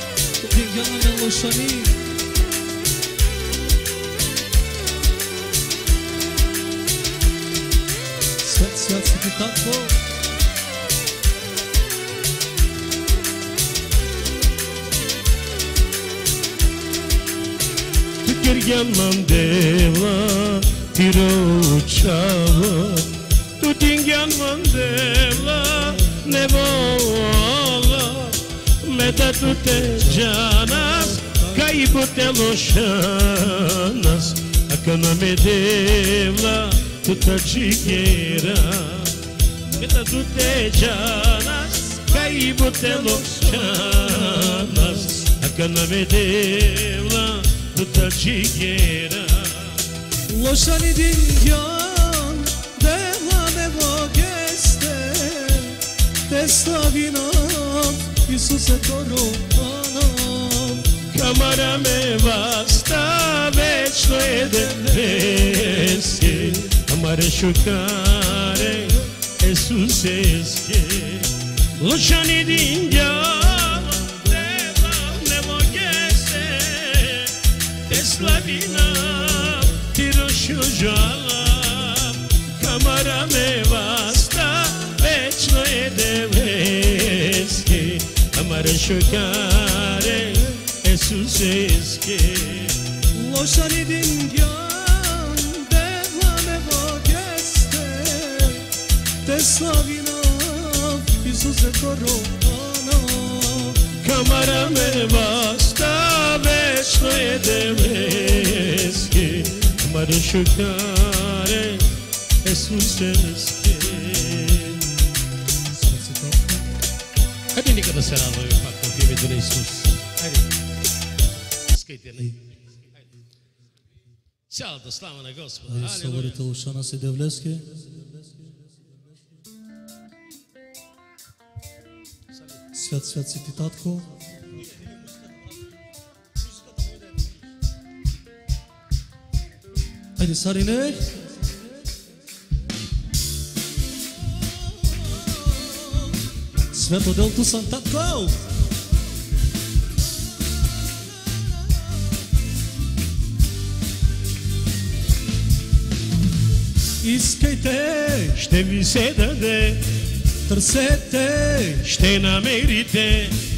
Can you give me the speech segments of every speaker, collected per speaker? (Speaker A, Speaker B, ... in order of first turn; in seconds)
Speaker A: 0.4-2.0, 8.4-10.0, 29.8-31.7, 42.8-45.2, 50.3-60.9, 93.1-103.9, 115.7-116.7, 125.7-128.5, 132.7-134.2, 140.2-141.3, 144.8-146.1, 146.7-148.4, 157.0-158.4, 160.4-161.8
Speaker B: 18.2-49.8, 61.1-92.8, 104.0-111.9, 112.4-114.9, 117.5-120.5, 121.7-122.5, 124.5-126.4, 158.3-159.8, 161.8-163.4